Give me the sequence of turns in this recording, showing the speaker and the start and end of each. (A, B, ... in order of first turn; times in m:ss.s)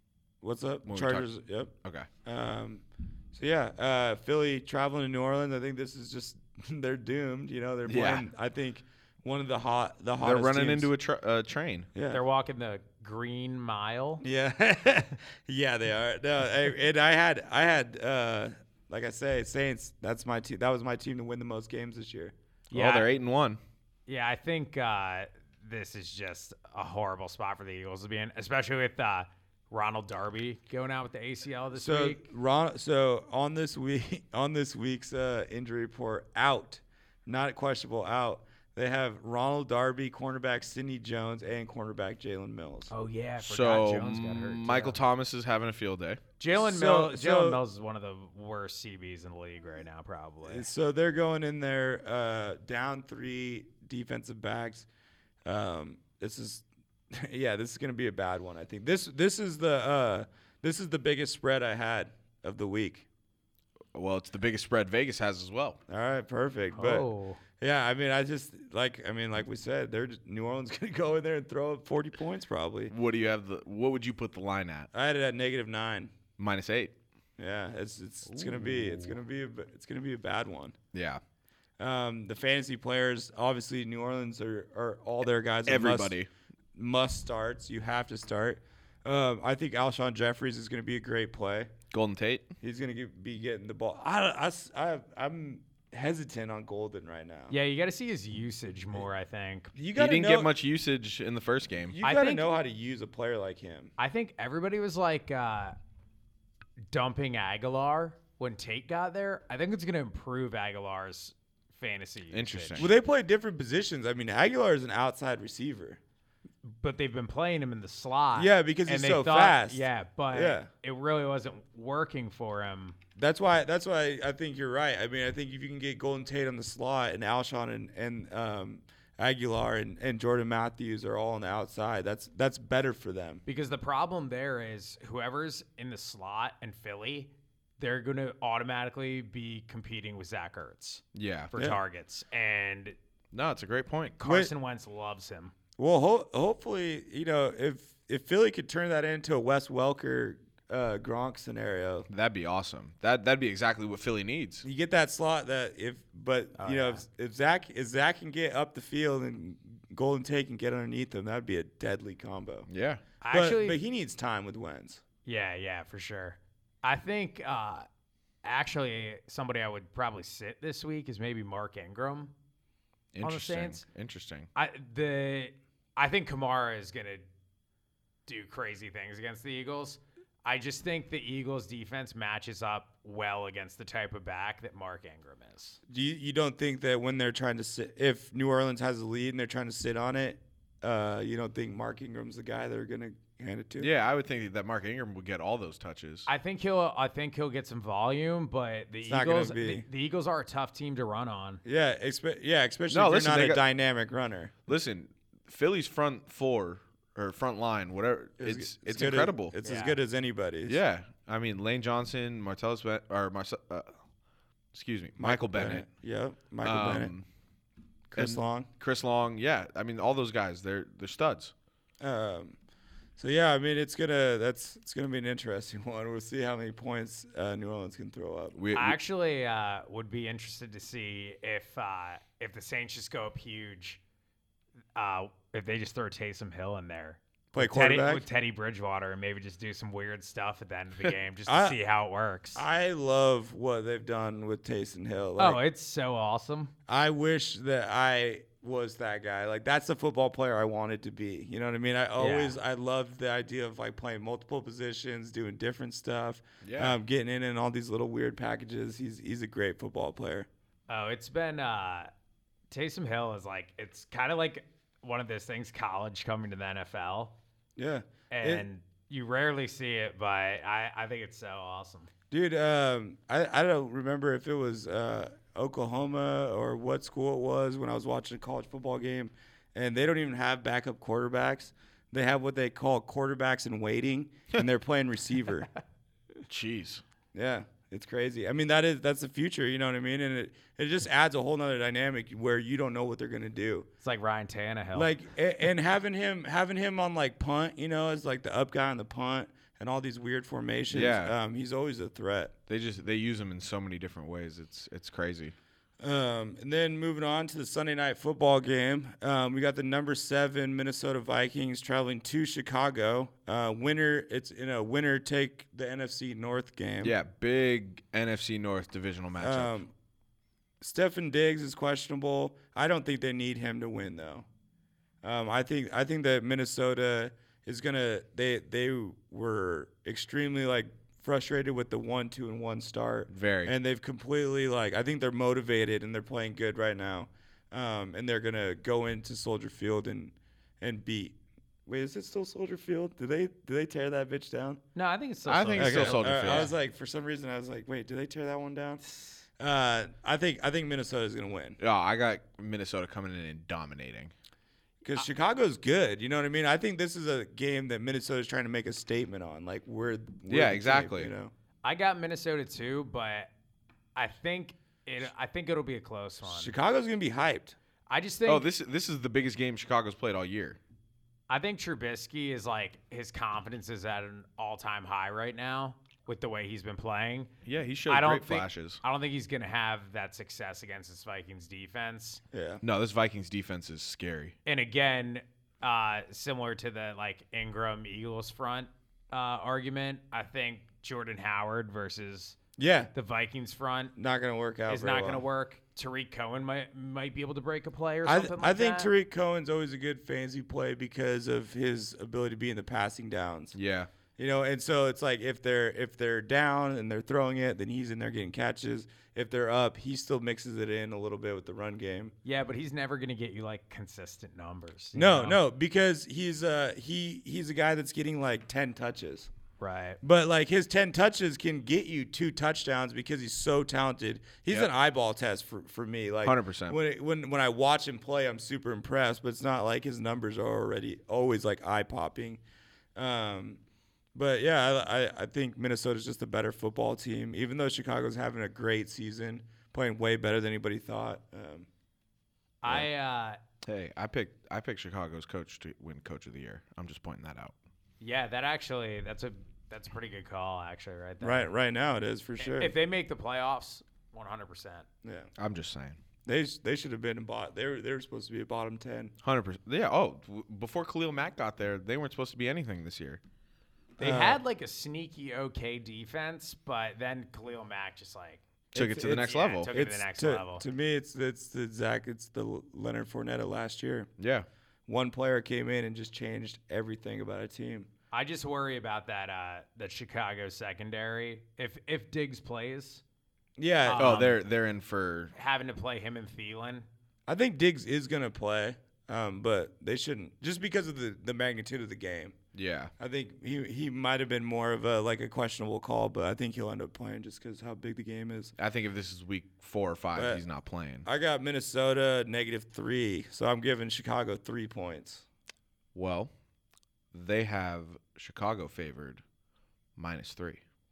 0:00.4-0:01.7 A
0:00.9-0:01.3 B
0:02.2-0:10.9 A
0:07.8-0:08.2 B
0:10.2-0:11.9 B
0:11.9-0:12.2 A
0:12.1-0:14.2 C
0:14.2-0:22.3 A
0:22.7-0:23.6 B
0:22.7-0:23.1 C
0:24.1-0:32.2 C
0:31.7-0:42.9 A
0:42.9-0:45.0 C
0:43.4-0:46.2 B
0:46.4-0:50.7 C
0:46.5-0:47.6 A
0:50.4-0:54.9 A
0:55.4-1:03.0 A
1:03.9-1:05.8 B
1:05.9-1:12.9 A
1:06.7-1:07.4 C
1:12.9-1:14.9 B
1:14.9-1:16.1 A
1:16.4-1:16.9 B
1:17.4-1:20.8 A
1:18.3-1:19.1 B
1:20.9-1:21.2 B
1:21.8-1:26.1 A
1:25.6-1:26.3 B
1:26.8-1:31.7 A
1:31.9-1:32.5 B
1:32.6-1:37.5 A
1:37.5-1:39.7 C
1:39.7-1:40.5 A
1:39.9-1:42.0 B
1:41.9-1:43.9 A
1:42.0-1:42.4 C
1:44.0-1:45.8 C
1:46.9-1:52.8 C
1:52.3-1:52.9 B
1:52.8-1:56.0 A
1:56.6-2:03.0 C
1:58.3-2:00.7 A
2:03.2-2:13.4 A
2:13.4-2:21.0 C
2:21.1-2:21.5 B
2:21.5-2:23.0 C
2:23.3-2:24.2 B
2:24.2-2:25.5 C
2:24.2-2:24.5 A
2:25.8-2:32.1 A
2:32.1-2:34.6 B
2:34.6-2:42.7 A
2:36.6-2:37.0 C
2:42.7-2:43.0 B
2:43.2-2:43.8 C
2:43.3-2:45.0 A
2:45.2-2:47.9 C
2:48.4-2:52.3 C
2:53.1-2:54.5 B
2:53.2-2:53.8 C
2:54.5-2:57.3 C
2:58.2-3:05.8 C
3:05.9-3:13.9 A
3:13.8-3:16.3 B
3:16.3-3:21.6 C
3:19.0-3:19.8 A
3:21.6-3:24.5 A
3:22.9-3:23.6 B
3:24.7-3:29.5 B
3:28.4-3:30.8 A
3:29.6-3:30.0 C
3:30.6-3:33.9 B
3:34.7-3:35.8 B
3:35.2-3:37.1 A
3:36.6-3:37.2 B
3:38.1-3:38.7 A
3:38.2-3:41.5 B
3:42.0-3:42.6 A
3:43.2-3:48.6 A
3:48.5-3:49.0 B
3:48.7-3:54.0 C
3:54.9-4:02.6 C
3:57.5-3:58.2 A
4:01.5-4:01.8 A
4:02.5-4:05.6 A
4:05.4-4:06.7 C
4:06.9-4:20.5 A
4:12.2-4:12.6 C
4:16.6-4:17.0 B
4:20.9-4:22.1 C
4:22.7-4:27.3 C
4:27.8-4:28.6 A
4:28.3-4:32.1 C
4:32.3-4:45.7 A
4:46.5-4:47.0 B
4:47.3-4:53.9 A
4:54.0-4:55.1 C
4:54.9-5:02.5 A
5:00.9-5:01.3 B
5:02.7-5:05.5 B
5:06.0-5:17.1 A
5:17.0-5:19.8 B
5:19.4-5:19.9 A
5:20.8-5:24.4 A
5:25.2-5:41.3 A
5:33.3-5:33.7 B
5:41.8-5:44.8 A
5:44.9-5:46.7 C
5:45.4-5:46.7 B
5:45.8-5:49.0 A
5:49.6-5:51.8 A
5:51.8-5:54.3 B
5:55.0-6:01.5 A
6:00.5-6:01.3 B
6:01.8-6:03.5 C
6:04.1-6:06.7 C
6:06.4-6:07.8 A
6:08.1-6:08.7 C
6:08.5-6:10.8 B
6:11.5-6:17.5 C
6:17.6-6:19.0 B
6:18.1-6:22.4 C
6:22.5-6:22.8 A
6:22.8-6:24.6 B
6:24.6-6:32.6 C
6:32.8-6:33.1 A
6:33.1-6:34.1 C
6:34.2-6:35.4 A
6:34.9-6:39.1 C
6:38.2-6:43.8 A
6:43.7-6:44.1 B
6:44.4-6:52.3 A
6:52.4-6:55.6 C
6:55.1-6:59.5 A
6:59.8-7:00.2 C
7:00.2-7:12.6 A
7:06.4-7:07.0 B
7:13.2-7:13.8 A
7:14.3-7:21.9 A
7:22.8-7:23.6 C
7:23.8-7:27.7 B
7:28.2-7:31.7 C
7:31.4-7:32.9 A
7:32.6-7:35.0 C
7:35.2-7:35.5 A
7:35.6-7:36.2 B
7:36.4-7:39.3 A
7:39.4-7:43.4 B
7:44.2-7:48.6 C
7:44.2-7:44.6 A
7:48.9-7:54.3 A
7:48.9-7:49.9 B
7:49.3-7:50.8 C
7:54.4-7:54.6 B
7:55.1-7:58.1 A
7:58.3-8:03.2 C
8:03.8-8:04.4 A
8:04.0-8:04.6 C
8:04.2-8:05.5 B
8:05.5-8:07.1 C
8:07.5-8:12.6 A
8:12.7-8:13.1 B
8:13.2-8:18.7 A
8:18.8-8:21.2 B
8:20.3-8:20.6 A
8:21.2-8:25.4 A
8:26.1-8:26.5 B
8:27.3-8:29.4 B
8:30.2-8:30.8 B